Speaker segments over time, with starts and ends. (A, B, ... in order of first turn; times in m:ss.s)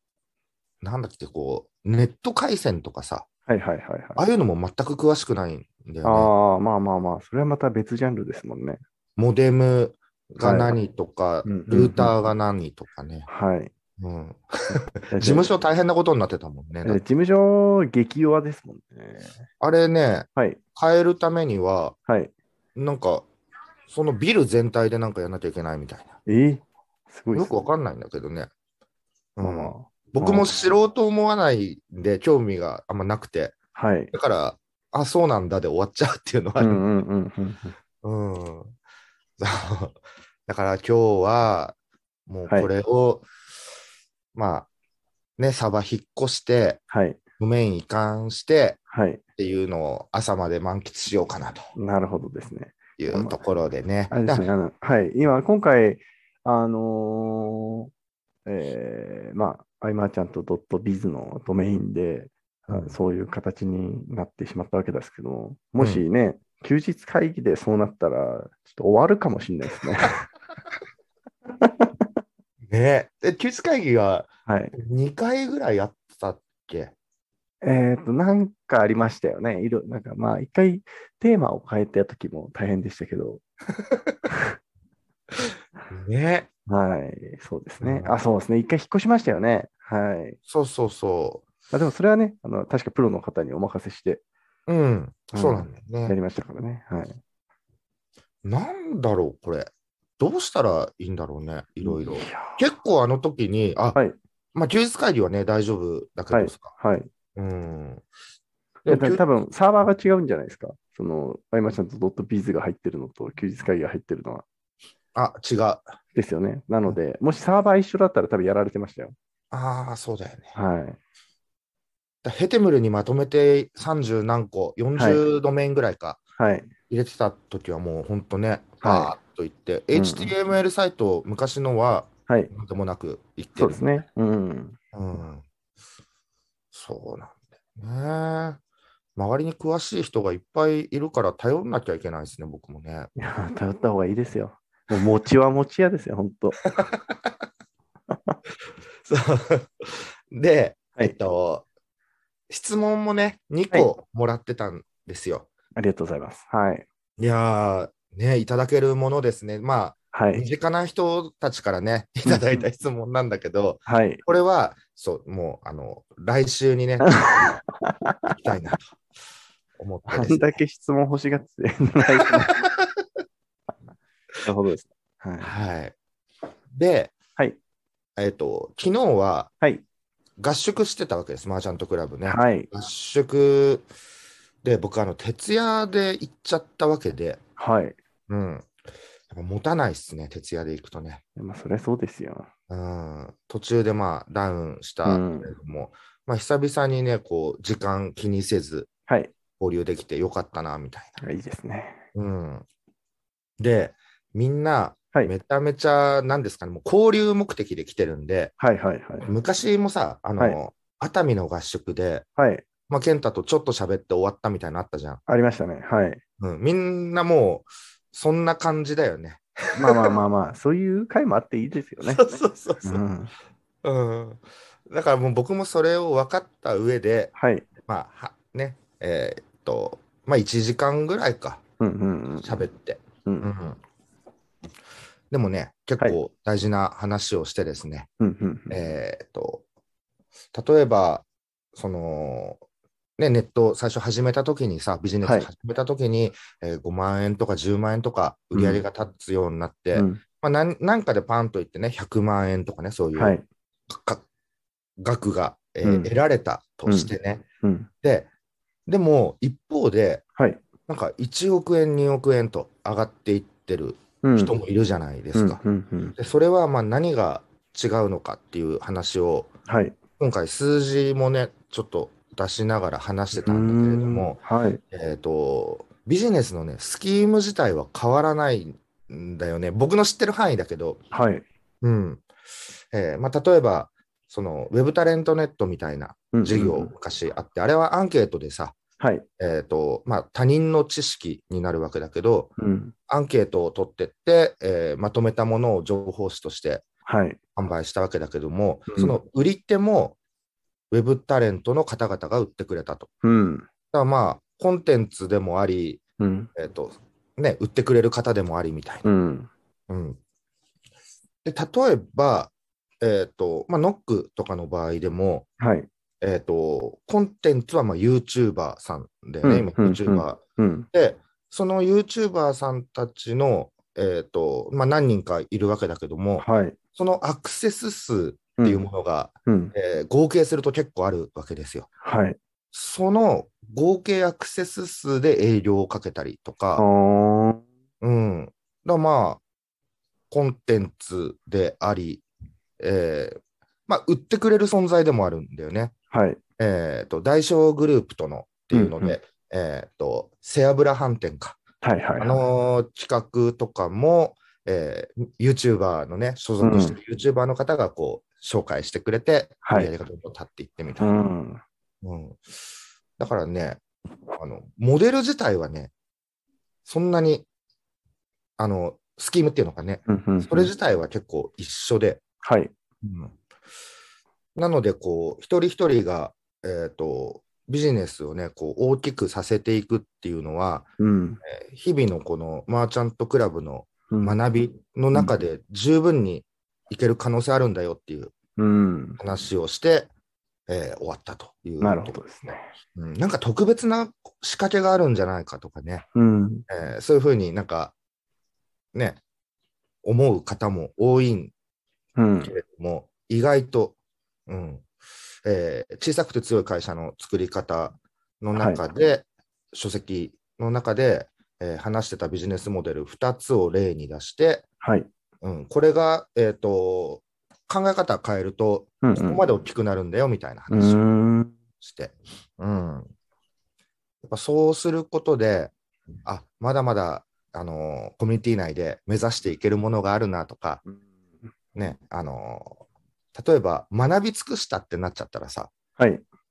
0:00.8-0:03.2 A
0:03.5-0:04.2 B
0:04.2-0:06.3 A
0:06.0-0:08.8 B
0:09.2-0:13.3 A
0:10.4-0:10.8 B
0:11.4-0:12.1 B
0:13.3-0:13.7 B
0:14.0-0:17.0 A
0:15.1-0:15.5 B
0:16.8-0:19.4 B
0:19.6-0:22.0 A
0:22.1-0:22.3 B
0:22.7-0:23.2 A
0:23.9-0:26.1 A
0:26.2-0:27.6 B
0:27.3-0:28.5 A
0:29.4-0:33.5 A
0:29.4-0:30.6 B
0:33.7-0:34.1 B
0:34.1-0:36.8 A
0:36.6-0:37.8 B
0:38.0-0:38.7 A
0:39.4-0:41.8 A
0:42.3-0:43.3 A
0:44.3-0:44.7 A
0:45.4-0:46.8 A
0:46.9-0:47.2 B
0:47.4-0:48.8 A
0:48.9-0:49.2 B
0:49.4-0:51.7 A
0:51.8-0:53.4 B
0:53.0-0:54.4 A
0:54.1-0:57.9 B
0:58.4-1:10.3 B
1:02.7-1:03.0 A
1:05.8-1:06.0 A
1:11.6-1:12.1 B
1:12.7-1:16.9 A
1:14.5-1:14.7 B
1:17.6-1:23.4 B
1:23.9-1:24.2 A
1:25.9-1:26.5 A
1:26.7-1:30.4 B
1:27.8-1:28.2 A
1:30.5-1:31.4 A
1:31.7-1:34.2 B
1:34.7-1:36.2 A
1:35.3-1:37.2 B
1:38.4-1:44.0 A
1:41.8-1:42.7 B
1:44.5-1:46.7 A
1:46.3-1:47.1 B
1:47.4-1:48.0 A
1:48.8-1:49.2 A
1:48.9-1:54.4 B
1:55.1-1:55.8 A
1:56.1-1:59.1 B
1:59.5-2:00.6 A
2:00.5-2:01.0 B
2:02.2-2:06.2 A
2:04.9-2:05.2 B
2:06.4-2:06.7 B
2:06.9-2:14.0 A
2:08.8-2:09.2 B
2:09.9-2:10.3 B
2:12.3-2:12.5 B
2:13.6-2:14.8 B
2:14.9-2:15.4 A
2:16.7-2:18.6 A
2:19.2-2:23.1 A
2:23.2-2:26.6 B
2:26.8-2:27.1 A
2:29.0-2:31.6 A
2:32.5-2:35.5 A
2:35.8-2:36.8 B
2:37.2-2:47.6 A
2:40.1-2:40.4 B
2:42.2-2:42.6 B
2:43.8-2:44.2 B
2:47.0-2:47.3 B
2:47.8-2:48.2 B
2:48.3-2:48.9 A
2:49.8-2:50.6 A
2:50.1-2:52.6 B
2:52.3-2:52.7 A
2:54.4-2:55.5 B
2:55.4-2:55.9 A
2:56.8-2:57.1 A
2:58.2-2:59.5 A
3:00.4-3:03.8 A
3:02.2-3:02.7 B
3:04.6-3:07.4 A
3:07.6-3:08.0 B
3:08.3-3:08.7 A
3:09.3-3:11.2 A
3:11.4-3:12.5 B
3:12.7-3:18.9 A
3:15.0-3:15.5 B
3:19.1-3:19.3 B
3:19.6-3:21.2 A
3:21.2-3:22.0 B
3:22.1-3:22.6 A
3:23.6-3:28.5 A
3:28.6-3:29.3 B
3:29.2-3:32.2 A
3:32.4-3:32.6 B
3:32.9-3:35.2 A
3:35.3-3:36.2 B
3:36.4-3:40.2 A
3:39.7-3:42.2 B
3:42.0-3:43.0 A
3:42.8-3:43.3 B
3:43.8-3:47.3 A
3:47.3-3:47.6 B
3:47.8-3:51.6 A
3:51.8-3:52.6 B
3:52.4-3:53.8 A
3:53.2-3:53.5 B
3:55.3-3:58.1 A
3:58.2-3:58.8 B
3:58.7-3:59.6 A
4:00.5-4:02.6 A
4:03.2-4:13.4 A
4:05.2-4:05.5 B
4:08.5-4:08.8 B
4:09.9-4:10.2 B
4:13.2-4:13.4 B
4:13.9-4:14.2 A
4:15.0-4:17.4 A
4:15.8-4:16.1 B
4:16.8-4:17.9 B
4:18.0-4:18.3 A
4:18.9-4:20.2 A
4:20.4-4:20.6 B
4:20.9-4:25.6 A
4:24.2-4:24.5 B
4:25.3-4:26.1 B
4:26.2-4:29.5 A
4:29.7-4:30.0 B
4:30.2-4:34.4 A
4:33.3-4:34.8 B
4:34.9-4:41.0 A
4:41.1-4:41.4 B
4:41.8-4:42.2 A
4:42.9-4:48.7 A
4:46.3-4:46.9 B
4:49.0-4:49.2 B
4:49.4-4:52.5 A
4:52.6-4:52.9 B
4:53.1-4:56.8 A
4:57.0-4:57.4 B
4:57.6-5:00.2 A
5:00.9-5:03.1 A
5:03.2-5:03.6 B
5:03.9-5:06.0 A
5:06.2-5:06.5 B
5:06.6-5:09.1 A
5:09.0-5:09.5 B
5:09.9-5:10.2 A
5:11.4-5:15.5 A
5:15.6-5:15.9 B
5:16.2-5:20.4 A
5:19.4-5:20.9 B
5:20.9-5:31.9 A
5:26.4-5:26.8 B
5:28.6-5:28.9 B
5:29.4-5:29.7 B
5:32.0-5:32.4 B
5:32.7-5:36.9 A
5:36.8-5:37.6 B
5:38.0-5:39.4 A
5:40.3-5:42.2 A
5:42.8-5:45.9 A
5:46.1-5:46.4 B
5:46.6-5:51.6 A
5:48.7-5:49.2 B
5:51.8-5:52.4 B
5:52.2-6:01.1 A
5:56.6-5:57.0 B
5:59.6-5:59.9 B
6:01.0-6:01.6 B
6:02.0-6:02.4 A
6:03.2-6:03.8 A
6:04.3-6:05.9 A
6:06.8-6:07.4 A
6:08.6-6:12.2 A
6:10.1-6:10.7 B
6:12.4-6:12.7 B
6:13.0-6:13.3 A
6:14.6-6:20.9 A
6:21.0-6:21.4 B
6:21.4-6:28.3 A
6:24.1-6:24.4 B
6:28.6-6:29.2 B
6:29.2-6:30.1 A
6:30.7-6:36.0 A
6:31.8-6:32.6 B
6:36.1-6:36.6 B
6:36.7-6:37.9 A
6:38.9-6:39.2 A
6:40.0-6:41.5 A
6:42.2-6:42.5 B
6:42.4-6:44.0 A
6:44.5-6:44.8 A
6:45.4-6:54.6 A
6:48.5-6:48.8 B
6:54.8-6:55.1 B
6:55.4-7:01.0 A
6:59.0-6:59.4 B
7:00.7-7:01.5 B
7:01.8-7:03.1 A
7:04.2-7:05.7 A
7:06.2-7:10.8 A
7:10.8-7:11.4 B
7:11.7-7:12.8 A
7:13.3-7:15.7 A
7:16.0-7:16.2 B